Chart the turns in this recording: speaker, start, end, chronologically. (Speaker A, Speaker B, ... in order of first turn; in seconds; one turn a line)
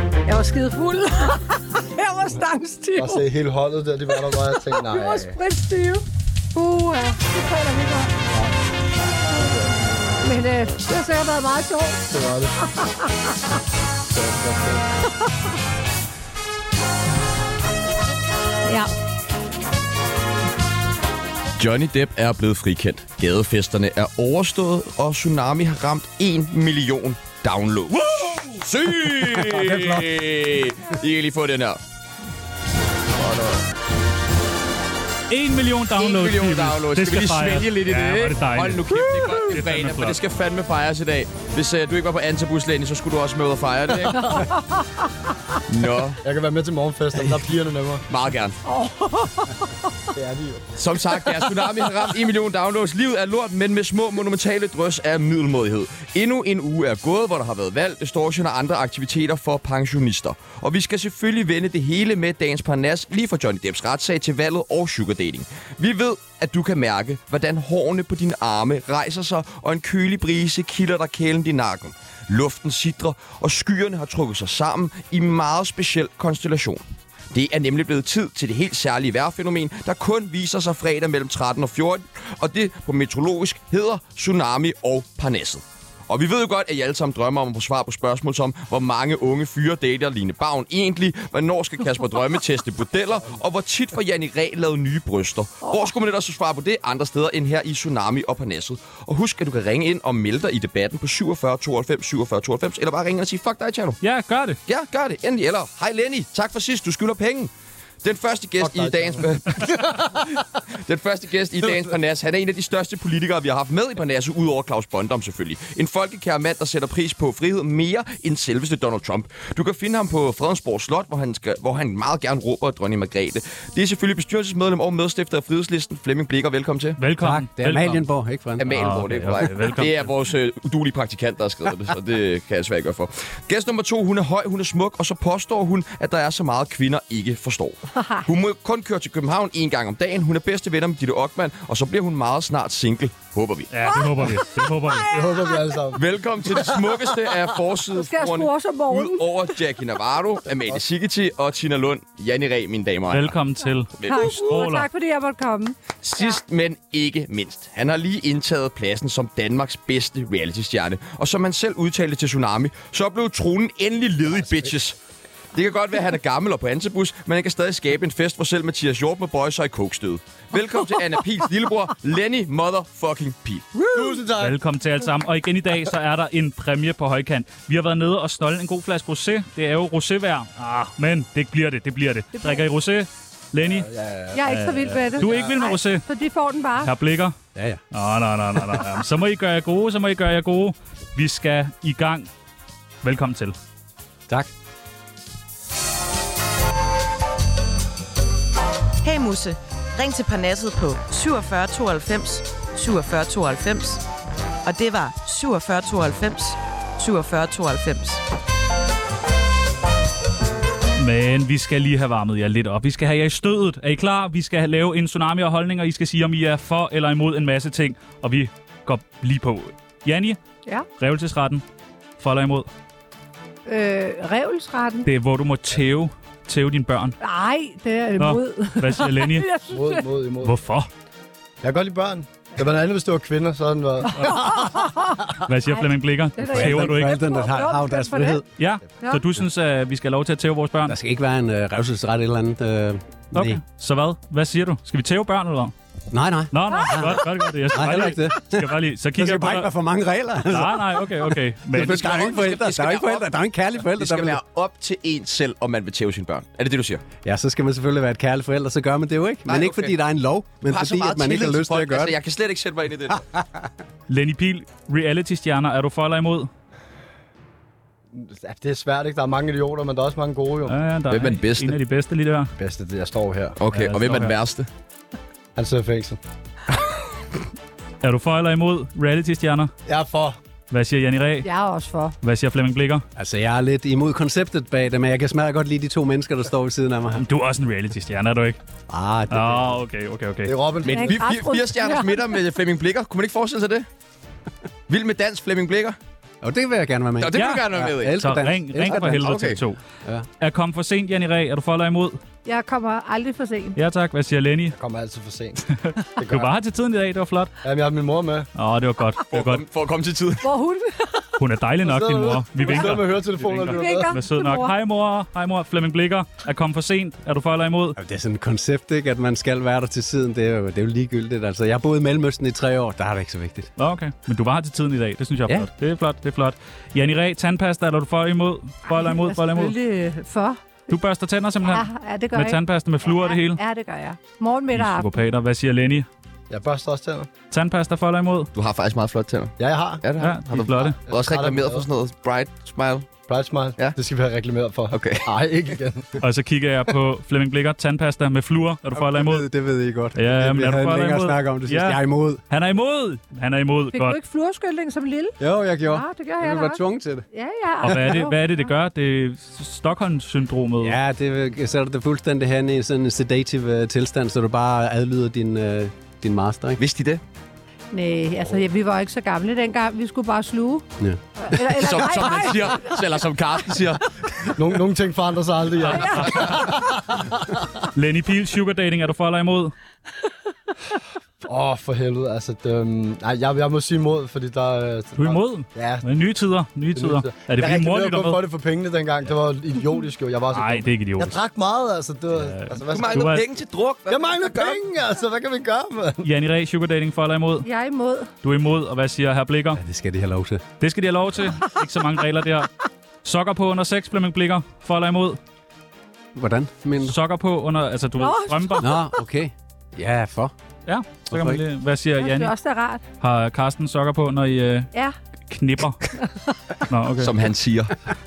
Speaker A: 0.2-3.2
Speaker B: 3.0-5.4
Speaker A: 4.1-8.1
Speaker A: 10.2-12.1
Speaker B: 12.1-12.6
Speaker A: 12.6-13.1
Speaker B: 14.1-14.8
Speaker C: 21.6-31.8
Speaker D: 28.1-28.6
Speaker E: 29.6-30.0
Speaker C: 33.1-33.6
Speaker D: 35.3-40.2
Speaker C: 36.0-44.4
Speaker B: 44.1-44.5
Speaker A: 44.2-45.0
Speaker C: 45.7-46.2
Speaker B: 46.2-48.0
Speaker C: 48.1-48.5
Speaker A: 48.6-49.7
Speaker B: 50.1-50.7
Speaker C: 50.7-104.0
Speaker D: 104.0-104.6
Speaker C: 104.7-107.5
Speaker C: 108.0-110.3
Speaker B: 108.6-110.4
Speaker C: 110.8-127.0
Speaker B: 111.6-111.9
Speaker D: 127.0-128.0
Speaker E: 127.2-129.4
Speaker C: 128.6-143.7
Speaker D: 128.7-130.1
Speaker A: 138.0-138.2
Speaker D: 143.7-145.2
Speaker A: 143.9-145.8
Speaker B: 145.0-146.1
Speaker C: 145.9-153.3
Speaker A: 147.9-149.6
Speaker D: 153.1-154.9
Speaker C: 154.0-154.4
Speaker A: 154.0-156.4
Speaker C: 156.0-164.9
Speaker C: 165.5-173.8
Speaker A: 173.8-174.2
Speaker B: 173.9-174.6
Speaker D: 174.4-183.9
Speaker A: 182.3-182.6
Speaker B: 183.6-184.4
Speaker A: 184.3-186.9
Speaker D: 184.4-186.0
Speaker B: 185.2-185.5
Speaker D: 186.8-187.3
Speaker E: 187.5-187.8
Speaker D: 187.9-192.3
Speaker D: 193.0-193.5
Speaker F: 199.0-204.0
Speaker F: 204.6-208.2
Speaker D: 211.0-220.4
Speaker D: 221.0-221.6
Speaker D: 222.2-222.7
Speaker A: 223.7-225.1
Speaker D: 225.0-227.2
Speaker A: 227.2-230.1
Speaker D: 228.2-229.5
Speaker B: 229.7-230.5
Speaker D: 230.4-230.9
Speaker B: 231.6-234.7
Speaker D: 234.2-234.6
Speaker A: 234.2-238.4
Speaker D: 235.4-237.2
Speaker E: 236.4-238.4
Speaker D: 238.6-240.9
Speaker E: 240.9-243.6
Speaker D: 243.3-245.7
Speaker E: 246.1-254.4
Speaker D: 246.5-249.7
Speaker D: 250.4-252.1
Speaker C: 251.8-253.3
Speaker C: 253.9-257.0
Speaker E: 257.2-262.1
Speaker C: 259.5-259.9
Speaker C: 260.6-263.2
Speaker E: 263.1-263.7
Speaker D: 264.1-266.5
Speaker B: 268.1-270.7
Speaker D: 270.7-272.5
Speaker C: 271.1-271.8
Speaker B: 272.6-273.6
Speaker C: 273.6-274.7
Speaker D: 273.7-274.3
Speaker B: 275.6-276.2
Speaker D: 278.0-279.7
Speaker B: 279.9-280.4
Speaker D: 280.7-281.5
Speaker A: 281.4-282.1
Speaker D: 282.2-283.0
Speaker E: 283.1-287.2
Speaker D: 287.2-288.6
Speaker E: 288.9-289.8
Speaker D: 289.3-290.5
Speaker B: 290.4-291.2
Speaker C: 290.9-293.9
Speaker A: 290.9-292.4
Speaker C: 294.9-296.0
Speaker E: 296.4-300.3
Speaker C: 297.2-298.2
Speaker D: 297.3-299.8
Speaker C: 298.9-299.6
Speaker D: 300.4-302.2
Speaker A: 302.4-303.8
Speaker D: 303.8-304.8
Speaker B: 304.7-305.6
Speaker D: 305.8-307.5
Speaker B: 306.2-306.5
Speaker B: 307.6-308.5
Speaker D: 308.6-309.6
Speaker C: 309.3-310.5
Speaker A: 310.4-311.3
Speaker D: 311.4-318.0
Speaker B: 311.8-314.1
Speaker A: 313.6-314.8
Speaker E: 318.0-323.7
Speaker D: 323.8-329.7
Speaker A: 328.9-330.6
Speaker D: 330.9-333.6
Speaker A: 331.6-335.1
Speaker D: 334.7-336.1
Speaker B: 336.5-337.3
Speaker D: 337.5-338.5
Speaker C: 338.5-343.1
Speaker B: 339.6-340.1
Speaker D: 340.2-341.0
Speaker B: 341.1-341.9
Speaker B: 343.3-346.2
Speaker C: 344.9-345.3
Speaker D: 346.2-349.4
Speaker E: 348.9-352.4
Speaker D: 350.1-354.2
Speaker A: 353.9-358.7
Speaker E: 355.4-357.2
Speaker D: 357.8-361.0
Speaker E: 360.8-366.8
Speaker C: 366.8-367.2
Speaker A: 367.9-370.8
Speaker E: 371.0-371.6
Speaker A: 371.4-373.0
Speaker C: 371.7-374.6
Speaker B: 374.6-377.7
Speaker D: 375.8-376.7
Speaker A: 375.9-376.5
Speaker D: 377.9-379.7
Speaker B: 381.4-386.1
Speaker D: 385.2-388.4
Speaker B: 387.0-393.4
Speaker D: 390.5-391.4
Speaker D: 392.3-393.4
Speaker C: 392.9-394.8
Speaker B: 394.1-396.2
Speaker D: 396.2-397.7
Speaker A: 397.6-398.3
Speaker D: 398.4-399.8
Speaker E: 399.8-400.6
Speaker D: 400.8-402.7
Speaker D: 403.2-405.4
Speaker E: 406.3-407.2
Speaker D: 407.0-408.9
Speaker A: 408.2-409.0
Speaker E: 408.8-410.5
Speaker D: 410.9-412.5
Speaker E: 411.3-411.6
Speaker A: 412.2-413.0
Speaker D: 413.2-414.9
Speaker D: 415.5-416.1
Speaker D: 416.9-417.3
Speaker C: 417.2-417.9